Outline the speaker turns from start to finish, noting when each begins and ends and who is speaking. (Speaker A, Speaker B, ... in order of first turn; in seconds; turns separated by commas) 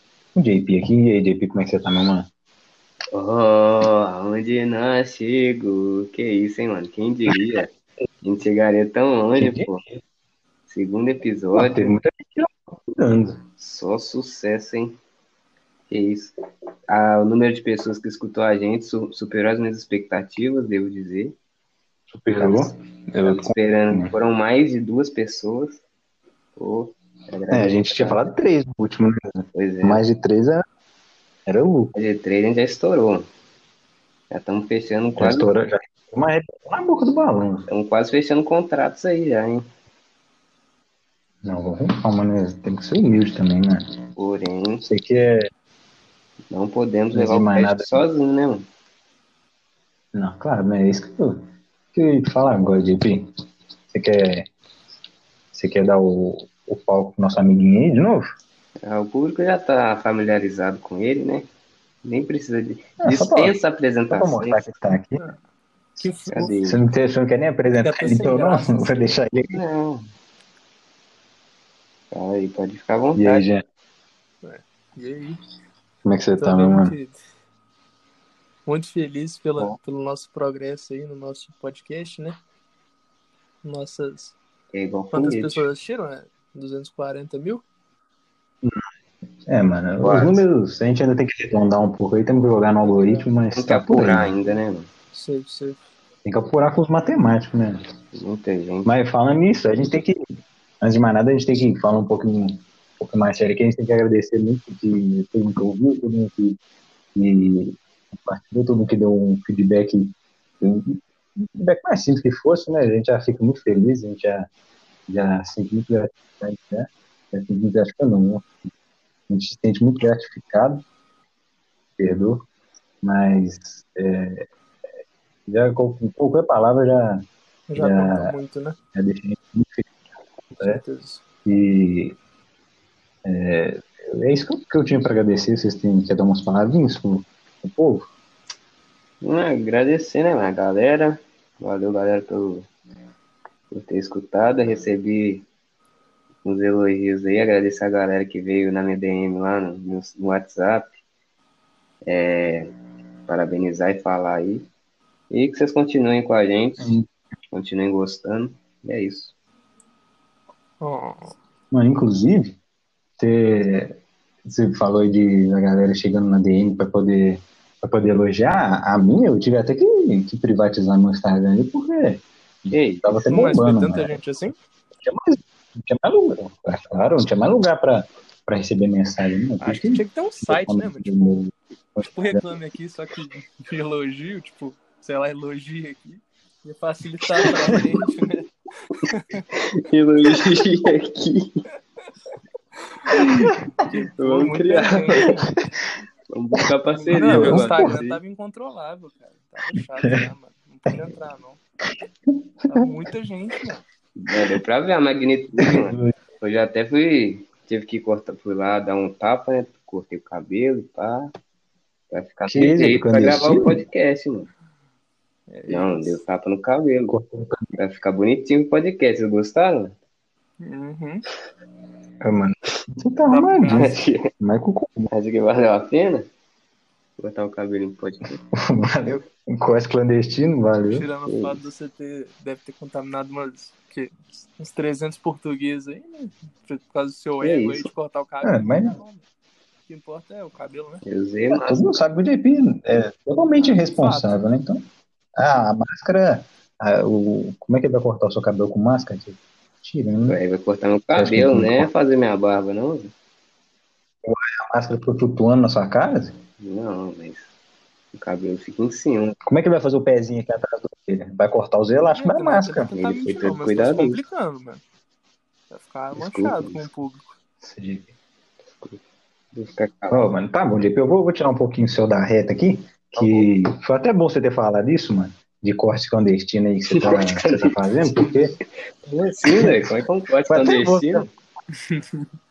Speaker A: 0.3-2.3, Speaker B: 3.1-9.8, Speaker A: 9.4-10.0, Speaker B: 10.7-12.0, Speaker A: 11.6-13.4, Speaker B: 13.6-15.0, Speaker B: 15.9-16.3, Speaker B: 16.9-21.4, Speaker A: 22.1-24.1, Speaker B: 22.4-25.8, Speaker B: 26.6-28.4, Speaker A: 27.5-30.6, Speaker B: 29.5-30.0, Speaker A: 31.5-31.9, Speaker B: 31.9-33.3, Speaker B: 34.3-35.5, Speaker A: 35.2-37.7, Speaker B: 37.7-39.7, Speaker A: 41.4-43.9, Speaker B: 44.2-44.9, Speaker A: 44.8-45.5, Speaker B: 46.5-48.7, Speaker A: 47.1-48.0, Speaker A: 50.1-53.3, Speaker A: 53.9-54.5, Speaker A: 55.5-58.2, Speaker B: 58.8-61.5, Speaker B: 62.0-64.7, Speaker A: 63.0-63.6, Speaker A: 64.1-65.2, Speaker C: 66.0-66.6, Speaker B: 66.3-66.8, Speaker A: 66.7-69.6, Speaker C: 67.8-69.1, Speaker B: 69.5-70.1, Speaker B: 72.1-73.5, Speaker A: 73.2-73.6, Speaker C: 74.4-75.4, Speaker A: 76.0-77.0, Speaker C: 76.4-77.2, Speaker C: 78.7-82.4, Speaker C: 83.6-84.4, Speaker B: 84.7-85.7, Speaker C: 85.1-87.6, Speaker A: 89.5-94.3, Speaker B: 90.0-90.5, Speaker C: 92.8-93.3, Speaker B: 93.5-94.9, Speaker C: 95.1-95.8, Speaker A: 96.2-97.8, Speaker B: 98.1-98.9, Speaker A: 98.8-100.2, Speaker A: 100.8-106.6, Speaker A: 107.2-114.5, Speaker A: 115.1-118.5, Speaker A: 119.3-120.8, Speaker A: 122.0-122.5, Speaker A: 123.0-124.5, Speaker A: 125.5-128.3, Speaker C: 127.7-128.8, Speaker A: 128.9-129.9, Speaker C: 130.6-131.2, Speaker A: 131.4-132.2, Speaker A: 133.2-138.1, Speaker B: 139.2-142.7, Speaker B: 143.7-145.5, Speaker B: 146.4-151.0, Speaker B: 152.1-152.7, Speaker B: 153.3-154.7, Speaker B: 155.3-156.9, Speaker A: 156.8-157.1, Speaker B: 157.5-159.3, Speaker C: 160.8-161.3, Speaker A: 161.7-162.6, Speaker A: 163.2-174.2, Speaker B: 172.7-173.1, Speaker C: 173.2-174.6, Speaker A: 175.0-182.4, Speaker C: 179.6-181.5, Speaker C: 182.1-189.5, Speaker B: 187.4-187.9, Speaker B: 189.5-191.6, Speaker C: 193.0-195.5, Speaker A: 193.1-193.5, Speaker B: 194.2-195.4, Speaker B: 196.3-198.2, Speaker C: 197.1-201.6, Speaker A: 197.1-198.0, Speaker A: 199.8-200.3, Speaker A: 202.6-202.9, Speaker C: 202.7-203.8, Speaker B: 204.2-211.3, Speaker A: 205.6-206.2, Speaker B: 212.1-214.5, Speaker A: 212.5-213.8, Speaker C: 215.5-216.2, Speaker B: 215.7-217.2, Speaker A: 217.1-217.7, Speaker B: 217.8-219.9, Speaker C: 220.6-221.2, Speaker A: 222.2-225.1, Speaker C: 223.3-223.9, Speaker B: 223.7-224.3, Speaker B: 225.1-226.3, Speaker B: 227.2-228.4, Speaker A: 228.5-231.1, Speaker C: 230.9-239.2, Speaker B: 231.3-231.7, Speaker B: 237.4-237.9, Speaker A: 238.4-239.0, Speaker C: 239.9-241.0, Speaker B: 241.1-241.8, Speaker A: 241.5-244.8, Speaker C: 243.6-244.4, Speaker A: 245.4-250.4, Speaker B: 250.3-253.1, Speaker A: 251.2-251.9, Speaker A: 254.2-256.3, Speaker B: 256.6-257.5, Speaker B: 258.1-259.4, Speaker A: 259.4-262.9, Speaker C: 262.1-264.8, Speaker B: 262.9-264.2, Speaker C: 265.7-267.3, Speaker B: 266.1-266.9, Speaker A: 267.6-268.1, Speaker B: 269.5-270.3, Speaker A: 270.1-278.6, Speaker B: 273.2-273.5, Speaker B: 276.9-277.7, Speaker B: 279.0-281.3, Speaker A: 279.4-279.8, Speaker A: 280.5-281.3